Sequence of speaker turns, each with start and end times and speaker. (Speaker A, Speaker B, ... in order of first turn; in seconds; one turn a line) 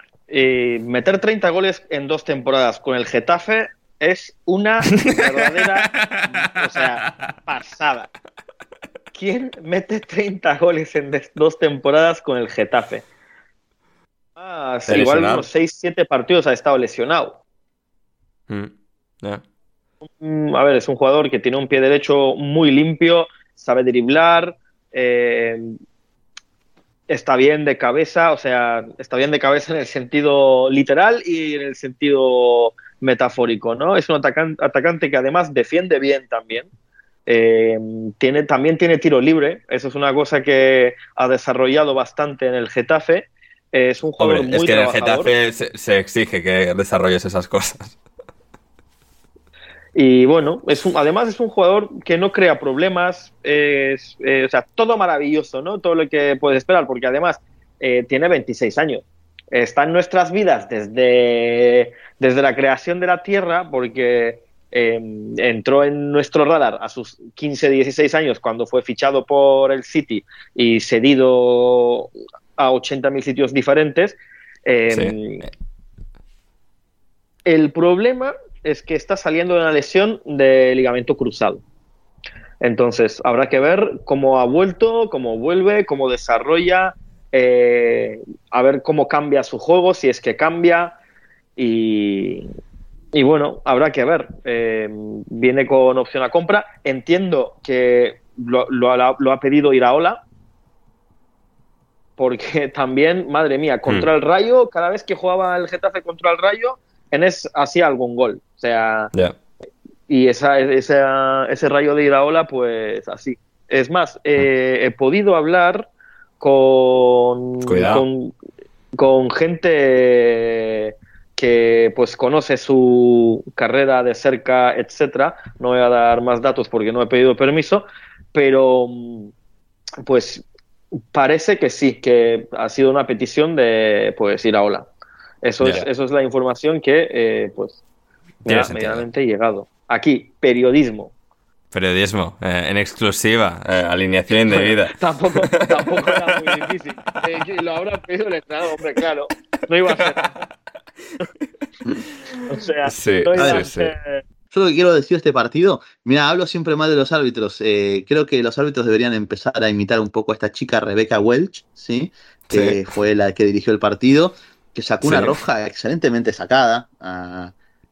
Speaker A: 0.3-8.1
Speaker B: 4.9-5.2
Speaker B: 5.9-7.1
Speaker A: 9.1-13.0
Speaker A: 14.4-17.4
Speaker B: 14.9-15.4
Speaker A: 20.2-25.7
Speaker A: 27.1-36.7
Speaker A: 37.3-45.3
Speaker B: 44.2-48.0
Speaker A: 49.9-75.4
Speaker B: 74.9-75.2
Speaker A: 77.5-81.6
Speaker A: 82.6-91.0
Speaker A: 91.6-92.5
Speaker A: 93.1-100.2
Speaker A: 102.2-109.1
Speaker A: 110.1-115.9
Speaker A: 116.4-118.3
Speaker B: 117.6-118.0
Speaker A: 118.9-129.3
Speaker A: 130.1-130.4
Speaker A: 131.1-134.9
Speaker A: 135.4-137.8
Speaker B: 135.6-135.9
Speaker A: 138.4-141.1
Speaker B: 138.5-139.1
Speaker B: 141.7-146.4
Speaker A: 144.4-150.4
Speaker B: 149.9-150.3
Speaker A: 152.5-154.2
Speaker B: 152.8-153.9
Speaker C: 153.3-153.7
Speaker C: 154.5-167.5
Speaker B: 162.5-162.8
Speaker B: 165.0-165.4